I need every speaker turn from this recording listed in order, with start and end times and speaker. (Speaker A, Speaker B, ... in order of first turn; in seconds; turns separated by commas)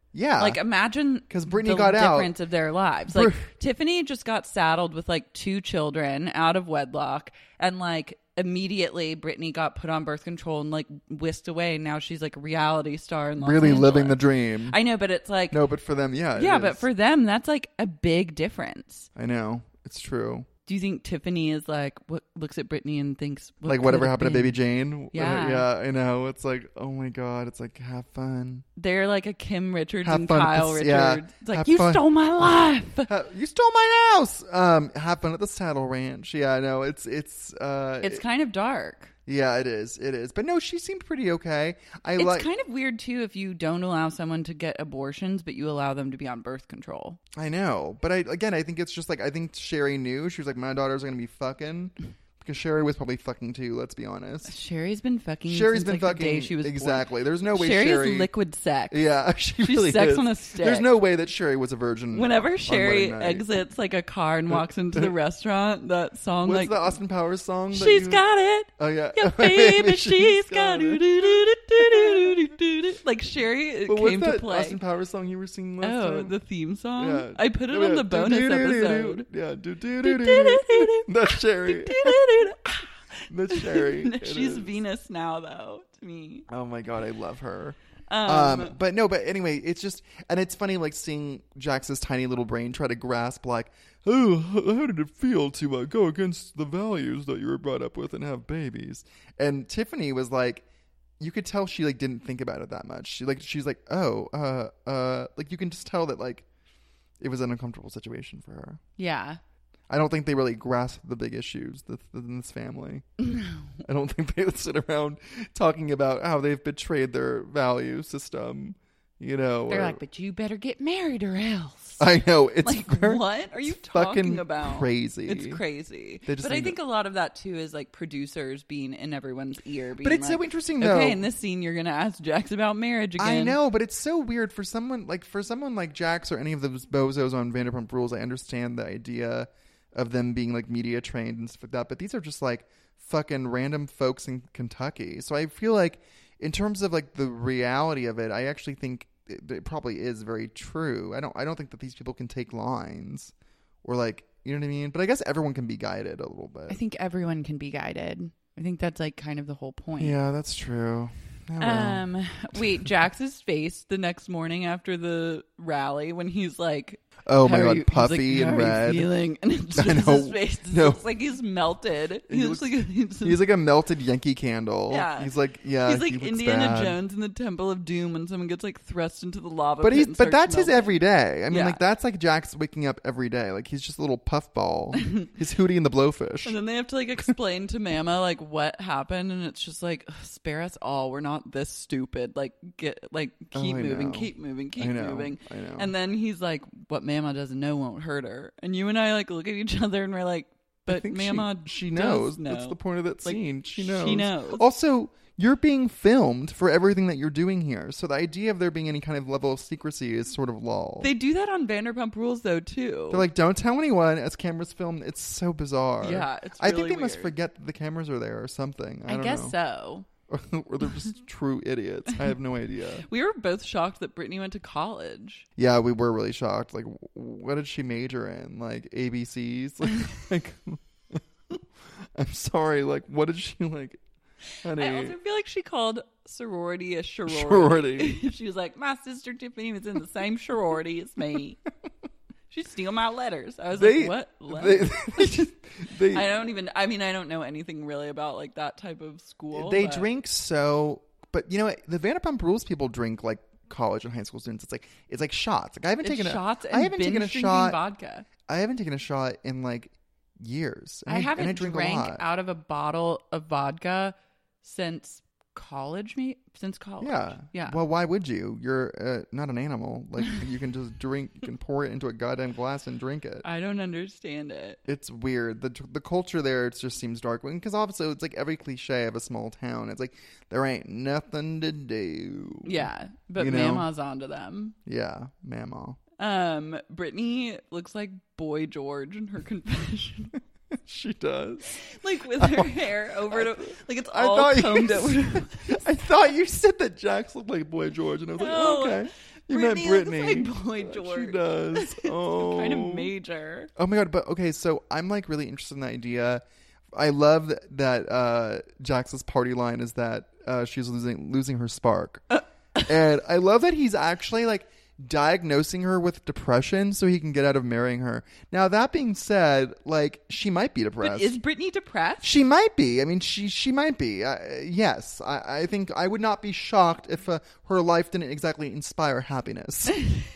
Speaker A: 0.1-0.6, Speaker B: 0.4-15.6, Speaker A: 1.3-2.3, Speaker A: 3.1-3.5, Speaker A: 13.4-14.8, Speaker A: 15.5-16.8, Speaker B: 16.3-19.1, Speaker A: 19.1-20.5, Speaker B: 20.6-24.6, Speaker A: 23.6-28.6, Speaker B: 25.1-25.7, Speaker B: 28.8-33.1, Speaker A: 30.0-32.1, Speaker A: 33.1-38.2, Speaker B: 38.0-39.1, Speaker A: 39.3-42.5, Speaker B: 42.2-47.2, Speaker A: 47.3-54.5, Speaker B: 54.5-59.0, Speaker A: 55.5-58.3, Speaker A: 58.9-63.5, Speaker B: 59.6-60.9, Speaker B: 62.1-67.0, Speaker A: 64.5-65.1, Speaker A: 66.4-68.2, Speaker B: 67.7-74.8, Speaker A: 68.8-72.4, Speaker A: 73.8-76.3, Speaker B: 75.8-79.3, Speaker A: 77.0-82.3, Speaker B: 80.0-86.5, Speaker A: 83.3-84.7, Speaker A: 86.5-100.6, Speaker B: 88.1-88.8, Speaker A: 101.2-106.5, Speaker A: 107.2-108.8, Speaker B: 109.0-109.4, Speaker A: 109.9-113.0, Speaker B: 113.2-113.7, Speaker A: 113.8-120.0, Speaker B: 119.7-122.0, Speaker A: 122.0-125.6, Speaker B: 122.6-133.6, Speaker A: 126.2-126.8, Speaker A: 130.0-131.2, Speaker A: 133.2-153.3, Speaker A: 153.8-156.8, Speaker B: 156.7-160.2, Speaker A: 160.0-162.1, Speaker B: 161.6-173.4, Speaker A: 167.2-169.1, Speaker A: 169.7-171.0, Speaker A: 172.3-177.0, Speaker B: 174.9-180.9, Speaker A: 179.8-186.6, Speaker B: 181.5-181.8, Speaker B: 186.4-204.6, Speaker A: 193.5-195.9, Speaker A: 200.9-211.1, Speaker B: 211.0-213.3, Speaker A: 213.1-219.5, Speaker B: 216.0-217.3, Speaker B: 219.1-220.1, Speaker A: 220.3-223.1, Speaker B: 223.1-225.4, Speaker A: 225.6-231.2, Speaker A: 232.1-234.0, Speaker A: 234.6-235.2, Speaker B: 234.8-241.6, Speaker A: 237.3-238.2, Speaker B: 242.5-245.4, Speaker A: 243.7-246.4, Speaker B: 246.1-250.1, Speaker A: 249.5-257.8, Speaker B: 256.0-258.2, Speaker A: 258.5-262.2, Speaker B: 261.1-267.8, Speaker A: 267.0-273.4, Speaker B: 273.4-274.8, Speaker A: 274.9-282.8, Speaker B: 282.6-284.8, Speaker A: 283.4-283.9, Speaker A: 284.8-286.0, Speaker B: 286.2-290.3, Speaker A: 290.7-291.8, Speaker B: 291.8-295.8, Speaker A: 292.4-303.1, Speaker B: 298.4-303.7, Speaker A: 303.8-306.4, Speaker A: 306.9-312.2, Speaker A: 312.8-321.4, Speaker B: 321.0-322.3, Speaker A: 322.2-330.0